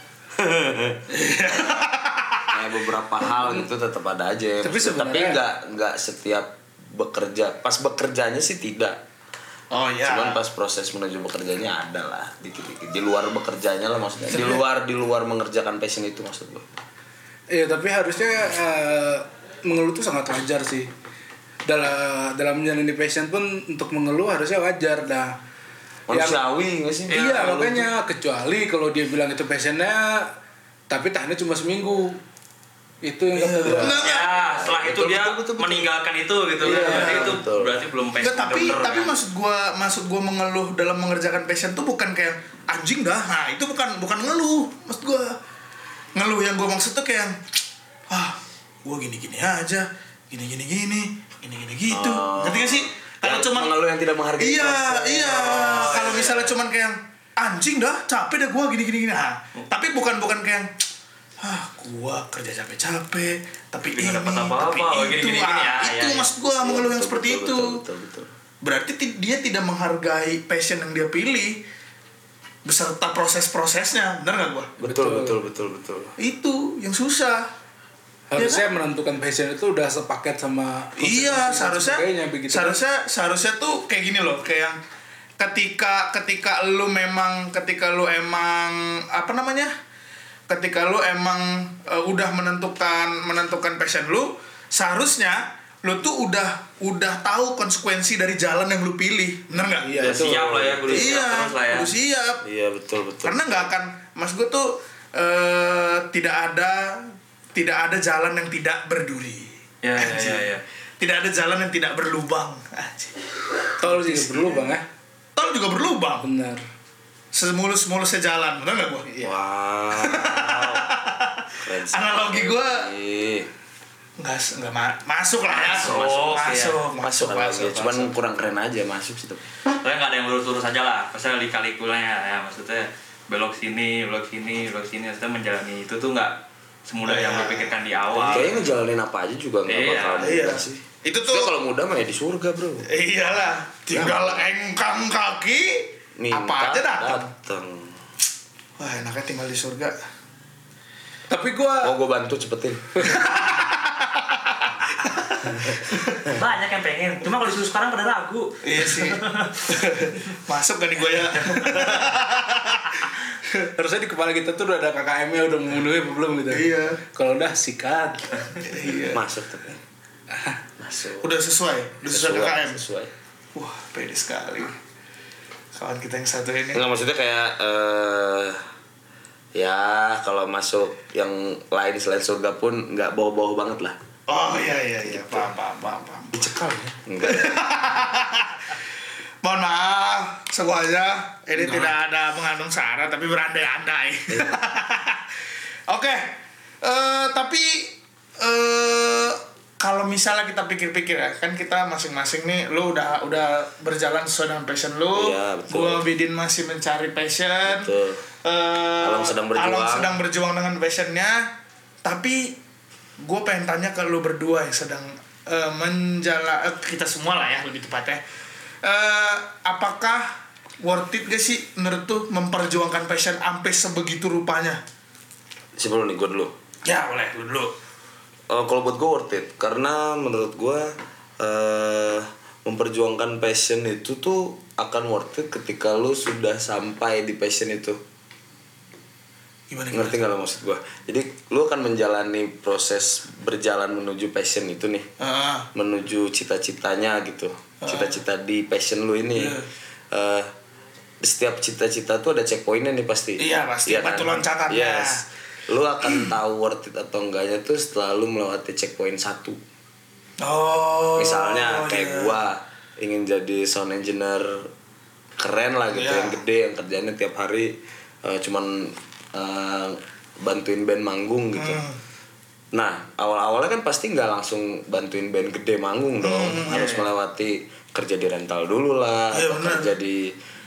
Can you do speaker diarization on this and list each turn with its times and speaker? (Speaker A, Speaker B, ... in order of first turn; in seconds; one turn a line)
Speaker A: 0.3-1.0
Speaker B: 1.1-2.5
Speaker A: 2.5-9.0
Speaker C: 4.6-5.4
Speaker B: 9.7-10.4
Speaker A: 10.0-16.8
Speaker C: 17.5-20.9
Speaker C: 21.6-25.4
Speaker A: 26.1-27.9
Speaker C: 26.1-26.4
Speaker C: 27.1-30.3
Speaker D: 27.1-27.6
Speaker C: 30.9-32.2
Speaker C: 33.0-33.9
Speaker A: 33.4-35.9
Speaker B: 33.6-34.3
Speaker D: 34.0-39.2
Speaker C: 36.6-37.2
Speaker A: 36.6-37.8
Speaker B: 36.8-37.3
Speaker B: 38.2-45.3
Speaker B: 46.1-47.4
Speaker B: 48.1-53.7
Speaker A: 51.9-56.0
Speaker B: 54.4-60.7
Speaker D: 55.3-56.6
Speaker B: 61.4-67.8
Speaker D: 63.9-66.3
Speaker A: 66.6-68.3
Speaker B: 68.6-71.6
Speaker B: 72.7-74.7
Speaker A: 74.8-76.1
Speaker C: 74.8-75.4
Speaker B: 76.2-77.5
Speaker C: 78.3-82.8
Speaker B: 78.3-78.7
Speaker B: 81.0-84.8
Speaker B: 85.4-89.7
Speaker B: 90.5-99.9
Speaker C: 99.7-100.6
Speaker A: 100.0-101.2
Speaker D: 100.0-101.9
Speaker B: 100.9-102.4
Speaker A: 102.4-103.7
Speaker B: 103.2-113.1
Speaker D: 109.8-110.6
Speaker B: 113.8-114.7
Speaker C: 113.8-114.8
Speaker B: 115.3-116.2
Speaker C: 116.2-116.6
Speaker B: 117.3-119.1
Speaker A: 119.2-121.0
Speaker B: 120.0-122.9
Speaker A: 121.6-123.5
Speaker B: 124.2-128.1
Speaker D: 125.5-126.8
Speaker A: 127.0-129.5
Speaker D: 129.7-136.3
Speaker D: 136.8-138.6
Speaker B: 137.0-138.5
Speaker A: 138.1-142.9
Speaker D: 139.7-140.4
Speaker B: 140.2-141.5
Speaker B: 142.9-147.3
Speaker A: 143.9-144.4
Speaker A: 146.2-148.0
Speaker B: 148.8-149.9
Speaker C: 151.3-151.9
Speaker A: 151.8-153.1
Speaker B: 153.1-155.4
Speaker A: 155.5-156.1
Speaker D: 156.2-159.7
Speaker B: 158.6-163.7
Speaker C: 163.8-168.4
Speaker B: 166.5-167.0
Speaker B: 168.6-169.2
Speaker A: 169.1-169.8
Speaker A: 170.8-171.4
Speaker B: 171.2-172.8
Speaker A: 172.1-173.1
Speaker B: 173.5-174.7
Speaker B: 175.7-176.8
Speaker A: 176.7-178.6
Speaker A: 179.5-184.0
Speaker B: 184.3-188.8
Speaker A: 185.0-185.5
Speaker A: 186.3-187.6
Speaker B: 189.4-195.2
Speaker C: 191.6-191.9
Speaker B: 195.9-207.9
Speaker A: 205.1-206.0
Speaker A: 207.6-208.2
Speaker B: 208.4-211.4
Speaker A: 209.0-210.2
Speaker B: 212.0-212.5
Speaker B: 213.2-218.2
Speaker B: 218.8-224.8
Speaker A: 225.8-226.5
Speaker B: 226.8-227.7
Speaker A: 228.5-238.0
Speaker B: 239.7-240.3
Speaker A: 239.9-245.1
Speaker B: 245.2-245.7
Speaker A: 245.7-249.6
Speaker B: 247.8-248.2
Speaker B: 249.3-249.7
Speaker A: 250.1-250.5
Speaker A: 251.2-259.6
Speaker B: 253.4-255.2
Speaker B: 260.4-262.4
Speaker A: 261.1-264.7
Speaker A: 265.4-271.8
Speaker B: 265.9-266.4
Speaker B: 271.6-272.0
Speaker A: 272.7-280.3
Speaker B: 276.2-277.0
Speaker D: 276.7-277.1
Speaker B: 279.3-279.9